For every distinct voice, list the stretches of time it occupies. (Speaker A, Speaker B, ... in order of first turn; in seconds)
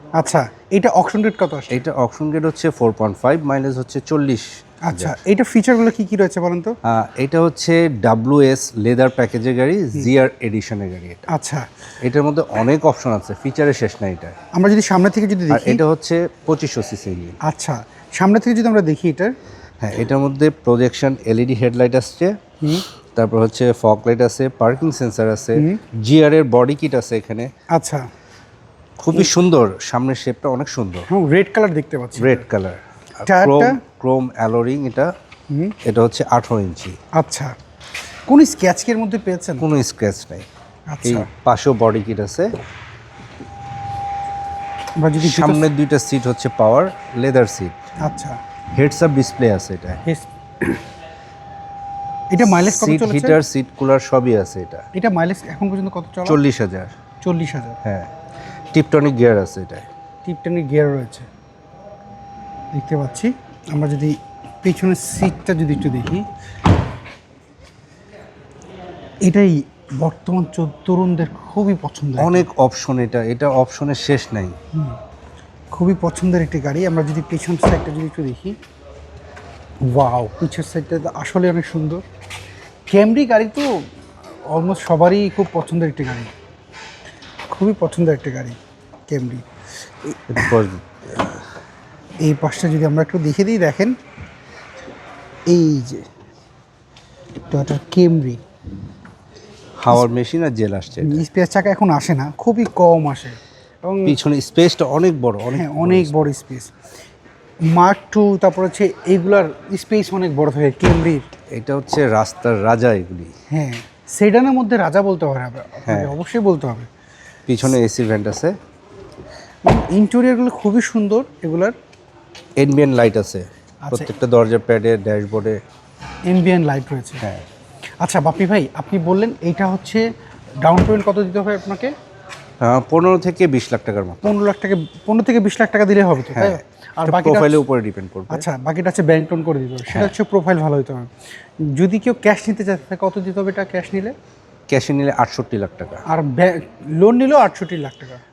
Speaker A: 0.2-1.7, 4.8-6.7, 11.3-11.7, 14.5-15.8, 17.4-19.4, 27.7-28.1, 31.1-32.5, 33.2-33.8, 35.5-35.8, 37.1-37.5, 38.3-39.7, 40.9-41.3, 45.0-45.7, 48.0-48.4, 50.0-50.8, 52.3-53.4, 54.9-56.4, 57.2-57.8, 60.2-61.3, 62.7-66.3, 69.3-72.5, 75.7-78.6, 79.9-82.0, 82.9-83.7, 84.5-86.3, 87.5-88.6, 89.1-89.5, 90.0-90.5, 92.2-94.0, 95.5-96.0, 97.5-98.4, 101.0-104.2, 105.5-106.7, 107.7-111.2, 113.5-116.9, 119.7-121.8, 126.3-127.2, 128.0-130.1, 130.6-131.9, 134.2-137.6, 138.3-141.1, 141.7-144.2, 146.1-148.2
Speaker B: 1.7-5.2, 6.8-11.3, 12.0-14.3, 15.5-17.4, 19.8-27.5, 29.0-31.1, 32.2-35.1, 35.8-37.0, 39.6-40.5, 41.0-42.5, 45.2-47.8, 48.7-50.0, 52.4-54.9, 56.2-56.9, 57.8-58.1, 58.7-59.9, 72.2-74.6, 90.3-91.4, 99.8-101.2, 104.0-106.2, 111.5-113.3, 115.9-116.1, 117.5-118.6, 122.6-125.6, 132.6-134.2, 136.3-138.5, 139.9-140.1, 144.7-146.0